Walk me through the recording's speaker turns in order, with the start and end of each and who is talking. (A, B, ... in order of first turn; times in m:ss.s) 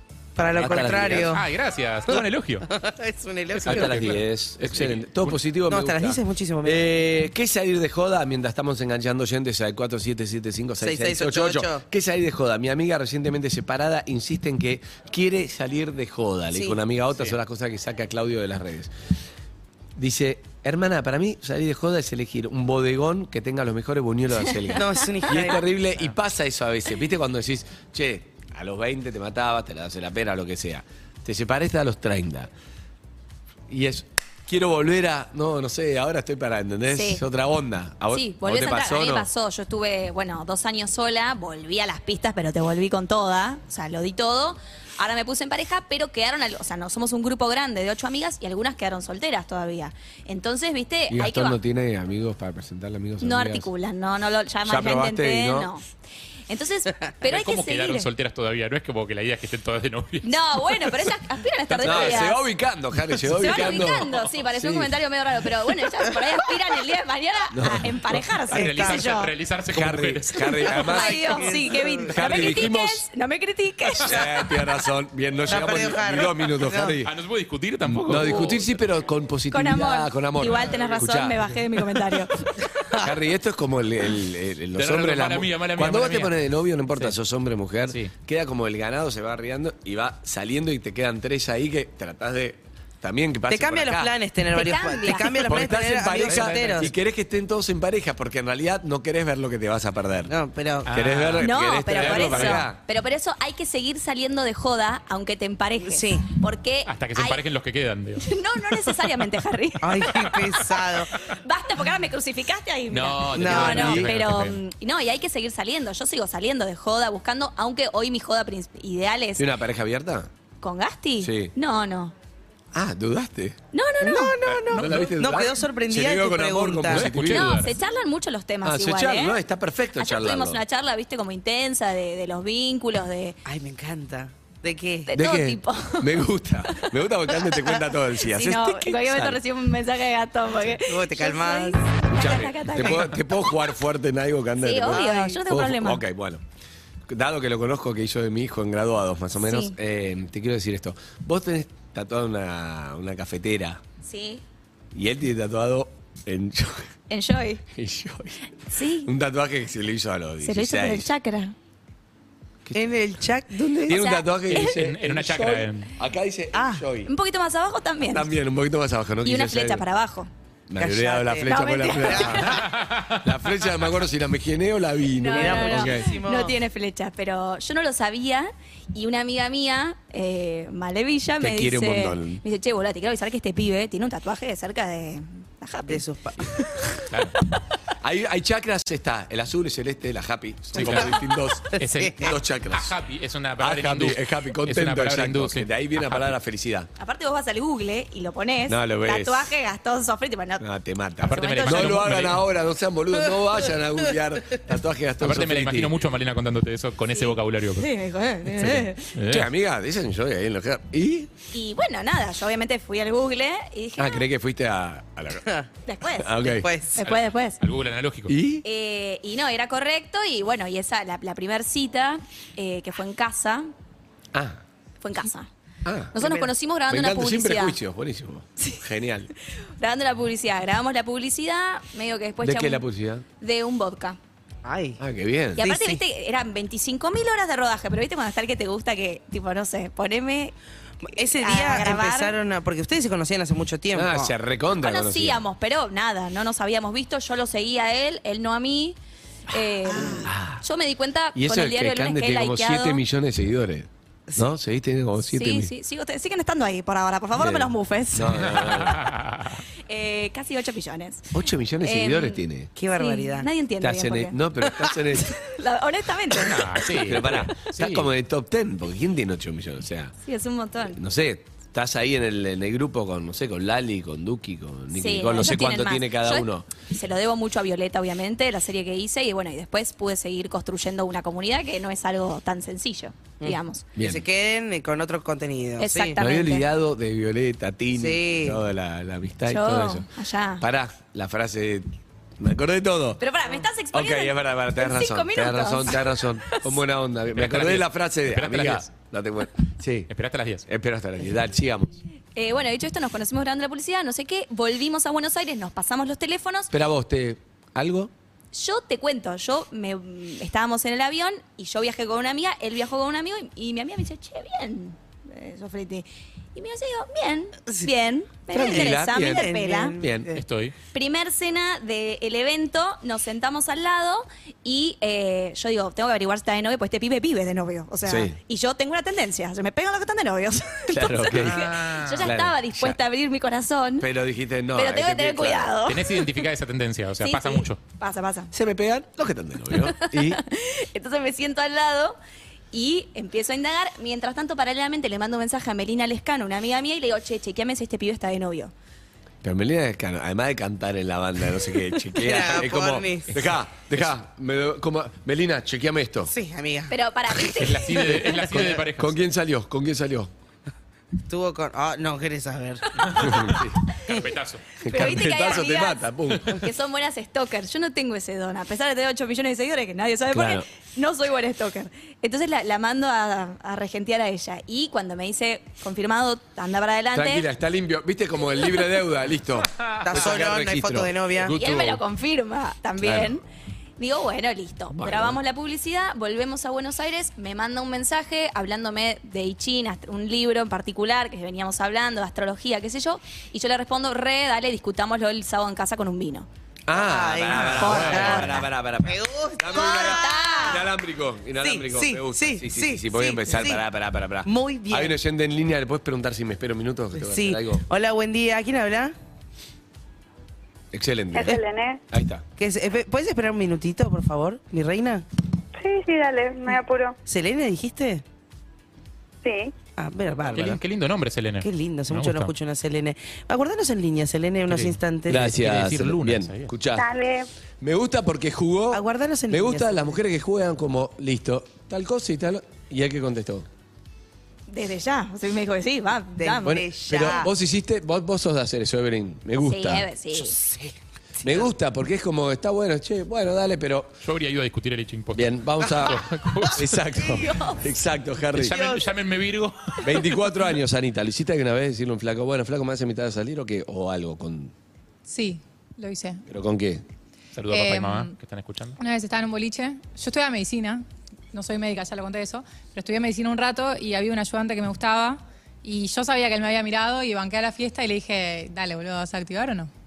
0:00.4-0:01.4 A
0:00.4-0:01.4 B
0:00.5-0:02.7 C
0:02.1-0:04.1 A
0:03.5-0:05.4 C
0:03.6-0:18.9 B
0:05.7-0:07.0 A
0:10.8-0:11.8 A
0:20.0-0:32.5 B
0:24.7-0:25.6 A
0:33.7-0:39.3 B
0:36.9-0:37.2 D
0:38.1-0:51.6 D
0:51.1-0:53.7 B
0:53.2-0:55.8 D
0:54.6-0:55.7 B
0:56.5-0:58.1 D
0:57.2-1:00.4 C
1:00.2-1:02.4 D
1:01.7-1:02.3 C
1:01.8-1:04.9 B
1:03.3-1:09.3 D
1:07.5-1:08.0 B
1:08.5-1:10.8 C
1:08.5-1:09.2 A
1:09.7-1:11.5 B
1:10.6-1:12.4 A
1:10.7-1:14.1 D
1:12.1-1:13.0 B
1:14.0-1:17.1 B
1:15.4-1:17.0 A
1:17.0-1:18.7 C
1:17.8-1:21.5 B
1:19.5-1:22.5 D
1:23.0-1:34.1 B
1:24.8-1:26.4 C
1:33.5-1:36.9 A
1:34.5-1:35.4 D
1:35.1-1:40.3 B
1:36.2-1:36.9 C
1:40.3-1:40.9 A
1:40.9-1:42.6 C
1:40.9-1:42.8 B
1:41.4-1:47.4 D
1:45.8-1:46.3 A
1:46.9-1:48.3 C
1:48.2-1:50.1 D
1:49.8-1:51.2 A
1:51.3-1:59.5 D
1:52.9-1:54.6 C
1:53.3-1:54.0 A
1:53.5-1:54.1 B
1:59.4-2:00.3 B
2:00.6-2:02.1 D
2:01.2-2:01.5 B
2:02.7-2:03.6 B
2:03.7-2:04.3 D
2:04.0-2:07.1 A
2:04.6-2:07.6 B
2:04.7-2:05.1 C
2:06.9-2:07.8 C
2:07.3-2:09.4 D
2:08.6-2:10.6 B
2:10.0-2:13.4 D
2:13.4-2:15.1 A
2:15.1-2:16.2 D
2:15.1-2:19.4 B
2:18.3-2:23.1 D
2:20.9-2:22.1 A
2:22.1-2:26.4 B
2:24.6-2:26.0 D
2:24.9-2:25.4 A
2:27.1-2:33.8 B
2:29.4-2:29.8 D
2:34.0-2:34.4 D
2:34.9-2:36.8 B
2:37.1-2:37.6 D
2:37.8-2:38.4 B
2:38.7-2:39.1 D
2:39.0-2:41.1 B
2:40.4-2:41.5 D
2:42.6-2:42.9 B
2:42.8-2:44.0 A
2:43.8-2:47.1 B
2:43.9-2:44.8 D
2:44.5-2:45.9 C
2:46.6-2:46.8 A
2:47.1-2:48.3 D
2:48.1-2:49.8 B
2:49.2-2:50.3 D
2:50.7-2:56.1 B
2:50.8-2:52.6 A
2:51.4-2:52.6 D
2:52.7-2:53.2 C
2:55.2-3:06.0 D
2:55.3-2:56.6 A
3:01.4-3:02.4 B
3:05.9-3:06.7 A
3:07.1-3:07.4 C
3:08.0-3:12.9 B
3:10.7-3:11.2 C
3:10.8-3:12.3 A
3:11.8-3:16.3 C
3:13.6-3:16.9 B
3:17.0-3:20.6 D
3:18.7-3:19.5 B
3:20.6-3:25.9 B
3:21.2-3:22.4 C
3:21.2-3:22.1 D
3:25.2-3:27.9 C
3:27.1-3:29.1 D
3:28.6-3:31.3 B
3:28.6-3:29.5 C
3:31.5-3:34.2 D
3:34.0-3:35.5 B
3:35.9-3:37.6 D
3:36.1-3:36.7 B
3:36.5-3:37.0 A
3:37.0-3:38.4 C
3:38.3-3:38.6 B
3:38.6-3:43.7 D
3:44.3-3:44.6 B
3:45.0-3:45.5 D
3:45.8-3:46.2 B
3:46.1-3:47.8 D
3:46.2-3:46.4 A
3:46.9-3:49.3 B
3:49.8-3:52.8 D
3:52.4-3:53.2 B
3:53.4-3:54.2 D
3:54.6-3:55.0 A
3:55.0-3:55.8 B
3:55.6-4:00.5 D
3:55.6-3:56.0 A
4:01.0-4:04.3 A
4:01.1-4:02.4 D
4:03.9-4:05.4 B
4:04.8-4:09.0 D
4:09.5-4:13.0 D
4:09.9-4:10.3 A
4:10.0-4:10.6 B
4:11.4-4:15.7 B
4:15.3-4:19.0 D
4:17.3-4:19.1 B
4:18.5-4:19.6 C
4:19.9-4:22.4 D
4:21.3-4:22.7 B
4:22.8-4:23.5 A
4:23.0-4:24.4 D
4:23.8-4:25.4 B
4:25.3-4:26.6 D
4:26.4-4:28.1 C
4:27.0-4:30.1 B
4:30.2-4:31.0 D
4:30.8-4:36.6 B
4:34.9-4:43.8 D
4:43.4-4:46.2 A
4:44.0-4:44.2 B
4:45.8-4:46.6 D
4:46.2-4:53.2 B
4:48.0-4:48.6 A
4:49.5-4:50.6 D
4:53.2-4:56.7 D
4:53.9-5:00.1 B
4:57.4-4:58.9 C
5:00.1-5:00.6 C
5:00.7-5:02.0 B
5:02.4-5:06.7 D
5:06.7-5:08.1 B
5:08.5-5:20.0 D
5:18.5-5:20.4 B
5:18.5-5:20.4 A
5:20.4-5:20.7 C
5:20.9-5:34.1 D
5:28.1-5:28.4 B
5:30.9-5:31.7 B
5:31.3-5:32.3 C
5:32.2-5:33.0 B
5:34.0-5:35.8 B
5:34.8-5:36.2 D
5:35.9-5:37.8 C
5:37.2-5:38.5 D
5:38.5-5:40.4 B
5:39.7-5:42.2 D
5:42.7-5:48.7 D
5:49.4-5:56.3 B
5:52.2-5:53.3 A
5:56.3-5:58.2 A
5:56.9-5:58.2 D
5:57.6-5:59.2 C
5:58.2-6:00.3 B
6:01.3-6:03.5 A
6:03.1-6:03.8 B
6:04.0-6:04.8 C
6:04.8-6:06.6 B
6:04.9-6:17.4 D
6:10.3-6:10.6 B
6:17.1-6:22.0 B
6:20.0-6:21.6 A
6:21.5-6:23.4 D
6:23.0-6:23.4 B
6:24.0-6:36.5 D
6:24.9-6:25.4 B
6:36.9-6:47.8 B
6:36.9-6:40.8 A
6:37.5-6:38.6 C
6:37.8-6:38.6 D
6:39.7-6:40.8 D
6:41.6-6:43.8 A
6:44.4-6:45.1 A
6:47.2-6:49.1 A
6:50.9-6:52.4 B
6:51.3-6:52.0 E
6:52.6-6:55.2 A
6:55.8-6:57.2 E
6:57.3-6:58.2 A
6:59.4-6:59.7 E
7:00.0-7:00.8 A
7:00.5-7:02.5 C
7:01.6-7:05.5 A
7:04.7-7:06.7 C
7:05.3-7:07.1 B
7:06.9-7:07.5 E
7:07.8-7:13.7 B
7:08.9-7:10.2 A
7:14.7-7:16.8 D
7:16.4-7:17.5 A
7:16.6-7:20.1 B
7:19.6-7:20.6 D
7:20.3-7:21.7 A
7:21.4-7:24.2 B
7:24.2-7:27.0 C
7:25.3-7:28.9 B
7:27.4-7:27.8 D
7:28.5-7:30.2 C
7:28.7-7:29.0 A
7:30.0-7:34.7 B
7:35.2-7:36.4 F
7:36.5-7:37.0 B
7:37.6-7:39.0 C
7:37.7-7:38.3 F
7:39.0-7:49.9 F